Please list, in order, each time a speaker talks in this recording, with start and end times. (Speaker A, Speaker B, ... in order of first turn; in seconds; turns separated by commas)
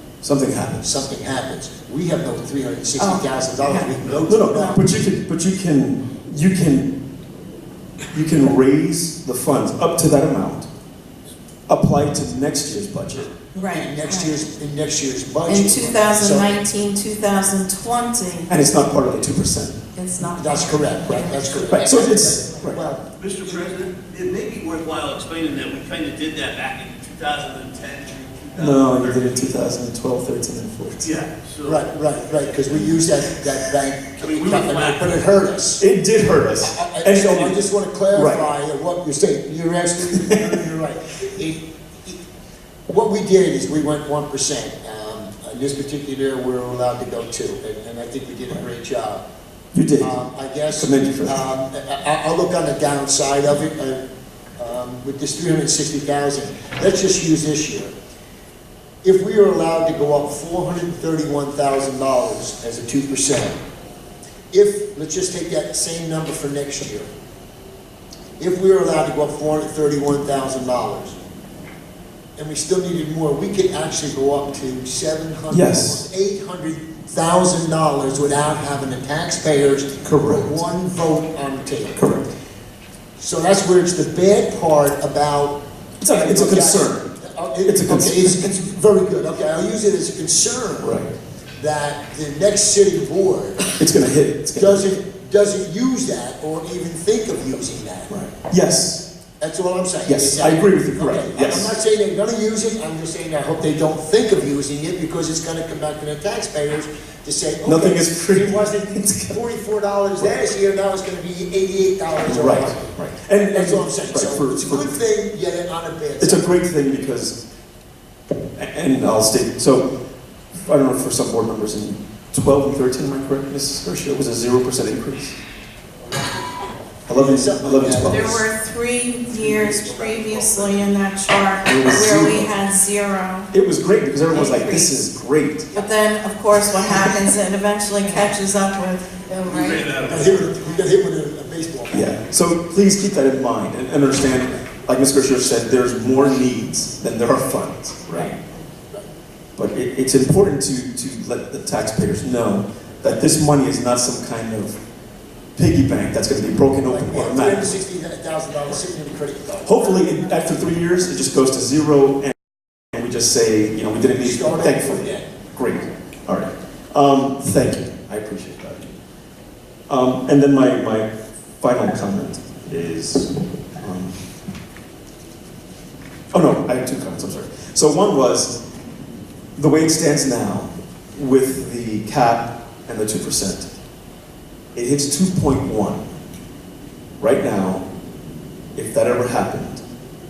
Speaker A: 0.2-0.9, Speaker B: 0.8-4.8, Speaker C: 3.0-3.9, Speaker A: 4.3-6.9, Speaker A: 8.1-10.7, Speaker A: 11.7-13.3, Speaker C: 13.5-14.4, Speaker B: 13.6-16.6, Speaker C: 15.5-18.5, Speaker A: 18.5-19.8, Speaker C: 19.9-21.6, Speaker B: 20.4-23.7, Speaker A: 21.7-22.8, Speaker D: 23.2-29.4, Speaker A: 28.6-31.2, Speaker D: 31.0-32.9, Speaker B: 31.6-35.8, Speaker D: 34.2-35.2, Speaker A: 35.8-37.5, Speaker B: 36.6-42.2, Speaker A: 38.1-38.4, Speaker B: 42.9-49.2, Speaker A: 49.7-50.1, Speaker B: 50.0-54.0, Speaker A: 50.7-51.4, Speaker B: 54.6-57.9, Speaker B: 59.0-63.6, Speaker B: 64.5-67.1, Speaker B: 68.4-71.2, Speaker B: 72.4-82.2, Speaker A: 75.5-76.0, Speaker A: 80.0-80.6, Speaker A: 82.0-82.3, Speaker B: 83.2-91.0, Speaker A: 86.0-87.0, Speaker A: 87.7-88.5, Speaker A: 90.8-91.1, Speaker B: 91.6-93.8, Speaker A: 93.8-94.9, Speaker B: 94.5-98.1, Speaker A: 98.1-99.0, Speaker B: 99.4-116.5, Speaker A: 100.1-101.7, Speaker A: 107.6-109.4, Speaker A: 112.2-114.9, Speaker A: 116.2-117.4, Speaker A: 118.5-119.9, Speaker A: 120.6-125.3, Speaker A: 127.1-128.4, Speaker B: 127.1-128.3, Speaker C: 128.0-133.5, Speaker A: 131.6-132.5, Speaker A: 133.5-135.7, Speaker C: 134.3-134.9, Speaker C: 135.7-140.0, Speaker D: 139.4-140.5, Speaker B: 140.0-142.1, Speaker A: 141.9-148.3, Speaker A: 149.6-154.8, Speaker A: 155.6-157.8, Speaker B: 156.9-159.9, Speaker A: 159.6-162.3, Speaker A: 162.9-168.9, Speaker B: 164.2-165.3, Speaker A: 169.9-171.1, Speaker A: 171.6-174.2, Speaker A: 176.3-178.5, Speaker A: 179.6-183.7, Speaker A: 184.7-186.0, Speaker A: 187.2-187.8, Speaker A: 188.8-189.8